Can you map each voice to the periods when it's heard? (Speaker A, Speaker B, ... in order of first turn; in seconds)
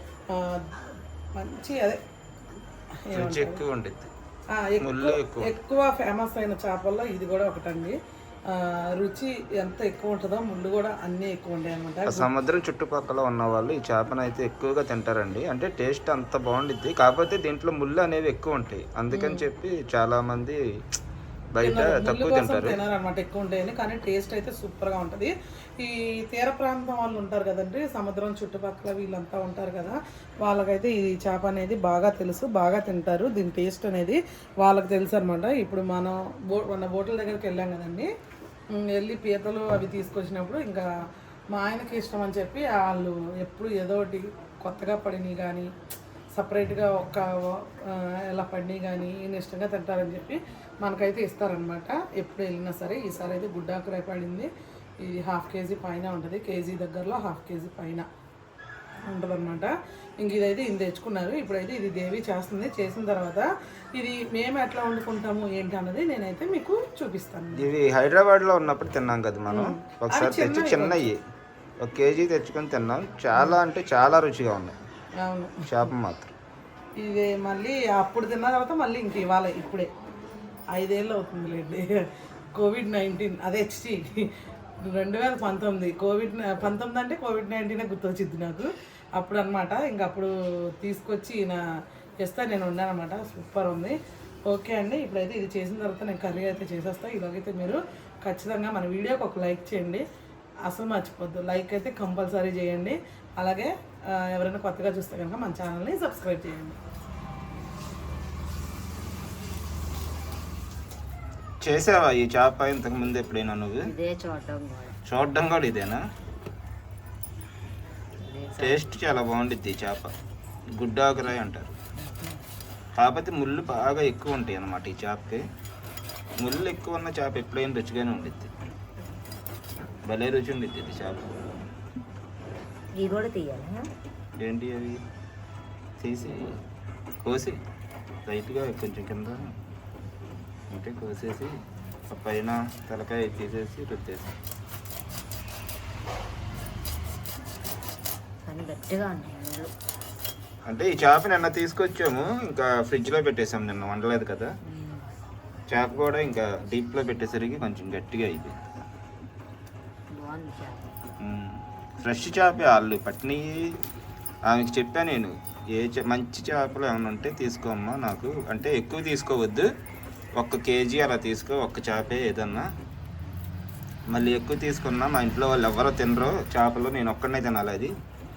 Speaker A: 0.3-2.0, 3.0-3.6, 4.5-8.0, 8.5-12.3, 19.1-19.4, 21.6-38.1, 38.7-40.9, 41.5-45.7, 46.3-54.5, 55.0-58.0, 59.1-67.7, 69.5-71.0, 73.3-73.6, 75.2-75.6, 77.0-79.9, 80.7-81.9, 82.5-84.3, 84.8-91.6, 92.2-100.0, 100.7-106.8
Speaker B: 3.1-4.1, 4.8-5.5, 12.1-20.6, 21.5-22.8, 67.5-71.2, 71.8-74.8, 75.7-76.3, 111.6-113.9, 115.0-116.0, 118.6-120.1, 120.8-121.8, 123.0-125.4, 126.4-128.5, 130.0-131.3, 134.4-135.0, 136.0-136.5, 137.2-137.6, 138.3-139.5, 140.7-141.5, 142.1-144.3, 150.7-154.5, 155.7-158.5, 161.2-163.7, 164.5-169.7, 170.4-172.7, 174.1-177.9
Speaker C: 113.8-115.0, 118.2-118.9, 122.0-122.4, 132.9-133.9, 148.4-149.7, 154.6-155.0, 160.1-161.0